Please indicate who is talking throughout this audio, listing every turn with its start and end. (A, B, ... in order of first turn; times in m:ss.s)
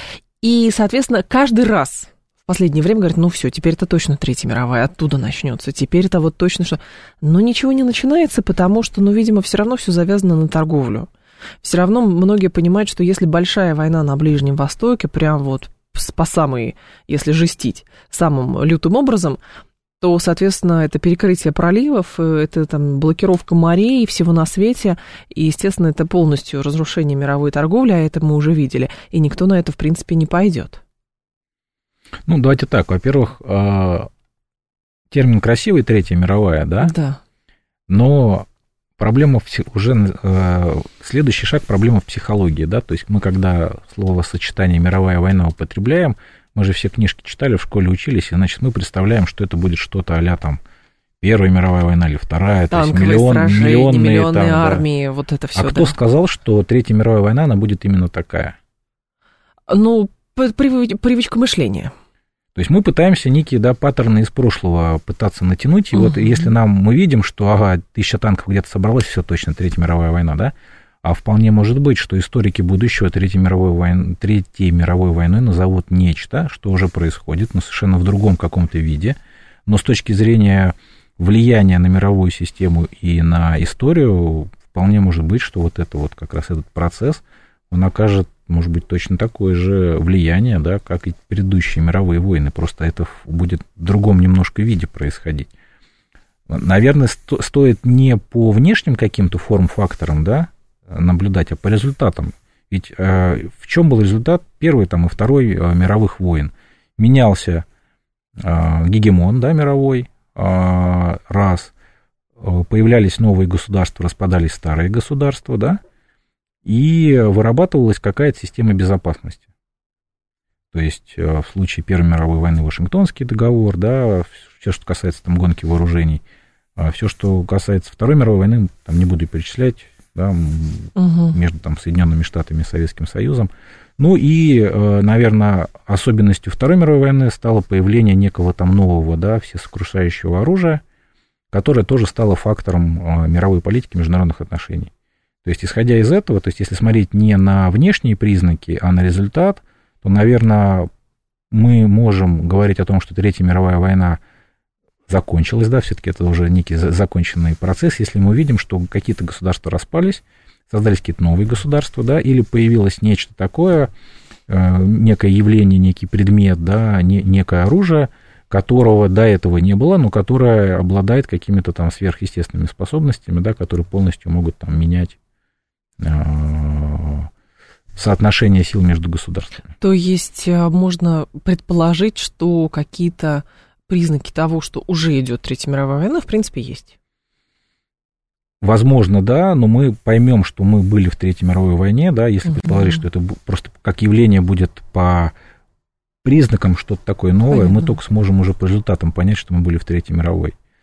0:00.4-0:11.1 A
0:11.6-0:19.4 A
0:20.0-0:30.8 A
0:32.2-0:34.1 B
0:35.1-0:36.9 B
0:36.8-0:37.2 A
0:37.9-0:38.5 B
0:39.0-0:50.6 B
0:51.2-0:54.8 B
0:52.7-0:55.9 A
0:55.6-0:58.6 B
0:59.7-1:01.9 A
1:02.5-1:35.5 B
1:06.0-1:06.5 A
1:36.5-1:47.6 B
1:48.4-1:51.7 B
1:52.4-1:55.8 B
1:56.6-1:59.4 B
2:00.7-2:06.2 B
2:06.8-2:20.8 B
2:11.0-2:11.4 A
2:21.5-2:24.9 B
2:25.4-2:30.9 B
2:31.5-2:34.2 B
2:35.1-2:43.9 B
2:44.5-2:55.2 B
2:56.0-2:57.3 B
2:57.9-2:59.7 B
2:59.8-3:06.9 A
3:08.6-3:15.3 B
3:12.4-3:13.0 A
3:16.2-3:20.6 B
3:17.5-3:17.9 A